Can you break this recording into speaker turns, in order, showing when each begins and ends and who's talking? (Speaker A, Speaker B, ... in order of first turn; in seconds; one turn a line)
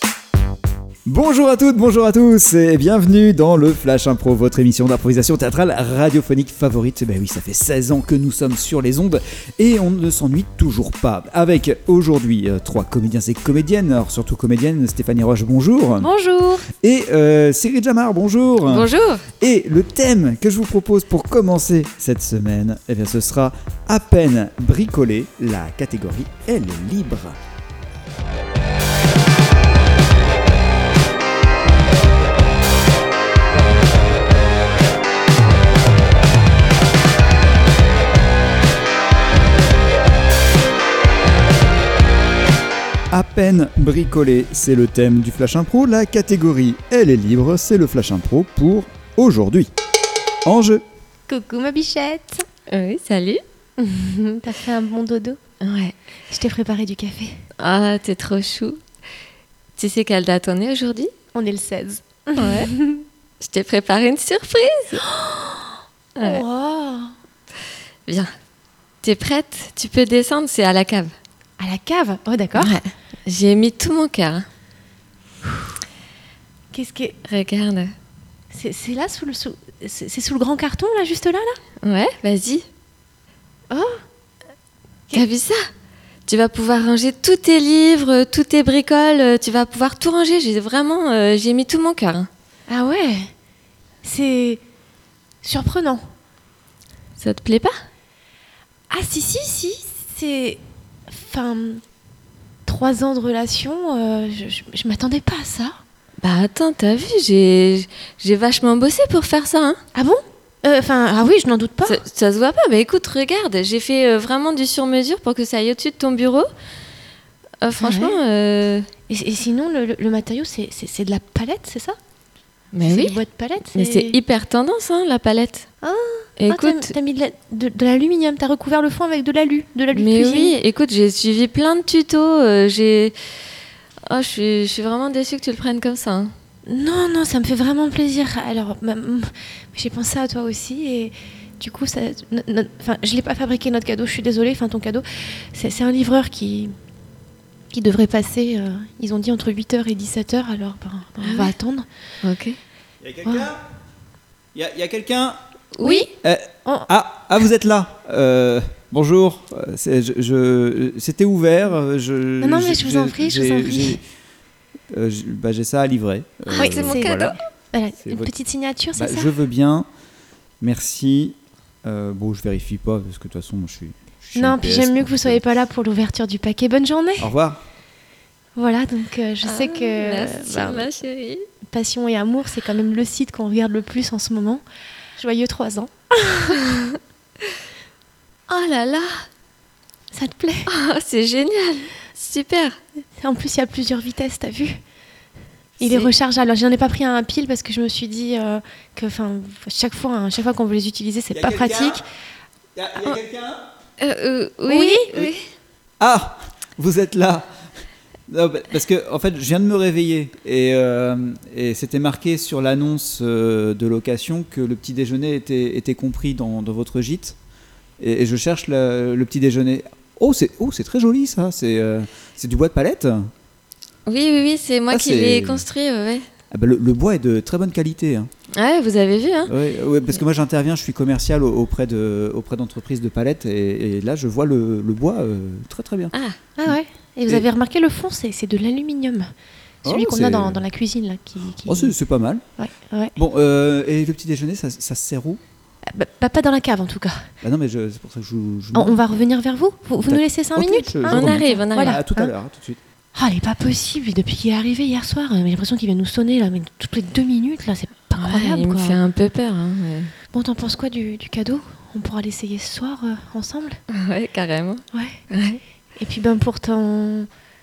Speaker A: 1.1-16.1
Speaker B: 16.0-16.6
Speaker A: 16.8-18.9
Speaker C: 18.7-19.2
Speaker A: 19.4-27.4
Speaker A: 43.1-49.7
Speaker A: 50.5-50.8
Speaker B: 51.3-52.4
Speaker C: 52.7-53.4
Speaker B: 53.8-55.4
Speaker C: 55.6-55.9
Speaker B: 56.3-57.4
Speaker C: 57.6-58.8
Speaker C: 59.8-61.1
Speaker B: 61.3-63.0
Speaker C: 62.4-62.7
Speaker C: 63.4-65.0
Speaker B: 65.0-67.1
Speaker C: 66.2-66.4
Speaker C: 69.0-71.1
Speaker B: 71.6-72.8
Speaker C: 72.6-74.5
Speaker B: 76.7-77.2
Speaker C: 77.2-77.9
Speaker B: 78.5-81.6
Speaker C: 81.8-82.7
Speaker B: 83.7-84.0
Speaker C: 85.1-85.6
Speaker C: 86.3-92.3
Speaker B: 92.7-93.3
Speaker B: 94.0-94.6
Speaker B: 95.4-96.0
Speaker C: 97.2-97.8
Speaker B: 98.9-101.8
Speaker B: 102.7-105.8
Speaker C: 106.2-109.8
Speaker B: 109.9-112.0
Speaker C: 111.8-116.5
Speaker C: 117.6-118.9
Speaker B: 117.8-118.2
Speaker B: 119.1-122.0
Speaker C: 122.7-123.2
Speaker B: 122.8-124.2
Speaker C: 123.7-125.7
Speaker B: 125.8-130.6
Speaker C: 126.4-126.9
Speaker C: 129.9-133.1
Speaker C: 134.1-136.3
Speaker B: 136.7-146.7
Speaker B: 147.7-151.9
Speaker C: 151.2-151.6
Speaker C: 152.2-152.6
Speaker A: 153.0-153.6
Speaker A: 154.5-155.4
Speaker C: 155.8-156.1
Speaker B: 155.8-156.1
Speaker A: 156.2-164.0
Speaker B: 162.4-164.0
Speaker A: 164.9-167.3
Speaker C: 166.5-167.4
Speaker B: 166.6-169.3
Speaker A: 168.0-168.3
Speaker A: 168.9-169.9
Speaker A: 170.6-175.6
Speaker B: 174.3-177.3
Speaker A: 177.2-177.6
Speaker B: 178.6-180.9
Speaker C: 179.4-181.4
Speaker B: 181.7-184.6
Speaker B: 185.2-186.6
Speaker C: 186.4-187.0
Speaker C: 188.5-189.2
Speaker B: 190.1-190.7
Speaker C: 190.7-192.8
Speaker B: 193.2-194.8
Speaker B: 195.8-202.0
Speaker C: 195.8-196.1
Speaker A: 201.3-202.0
Speaker A: 202.8-203.7
Speaker C: 204.0-205.4
Speaker B: 204.7-205.3
Speaker A: 206.0-207.5
Speaker A: 208.3-217.4
Speaker A: 218.0-223.3
Speaker C: 224.1-226.2
Speaker A: 224.9-225.7
Speaker A: 226.5-228.3
Speaker C: 228.6-229.5
Speaker A: 229.5-236.1
Speaker B: 236.6-239.3
Speaker A: 239.8-240.6
Speaker B: 239.8-241.9
Speaker A: 241.7-242.4
Speaker B: 242.6-243.2
Speaker A: 243.2-245.4
Speaker B: 245.9-247.2
Speaker A: 247.4-249.0
Speaker B: 248.7-252.3
Speaker A: 250.0-252.8
Speaker C: 251.1-252.0
Speaker B: 253.2-259.0
Speaker C: 258.2-260.1
Speaker B: 260.3-263.8
Speaker C: 263.9-265.6
Speaker B: 264.9-265.2
Speaker B: 266.0-267.3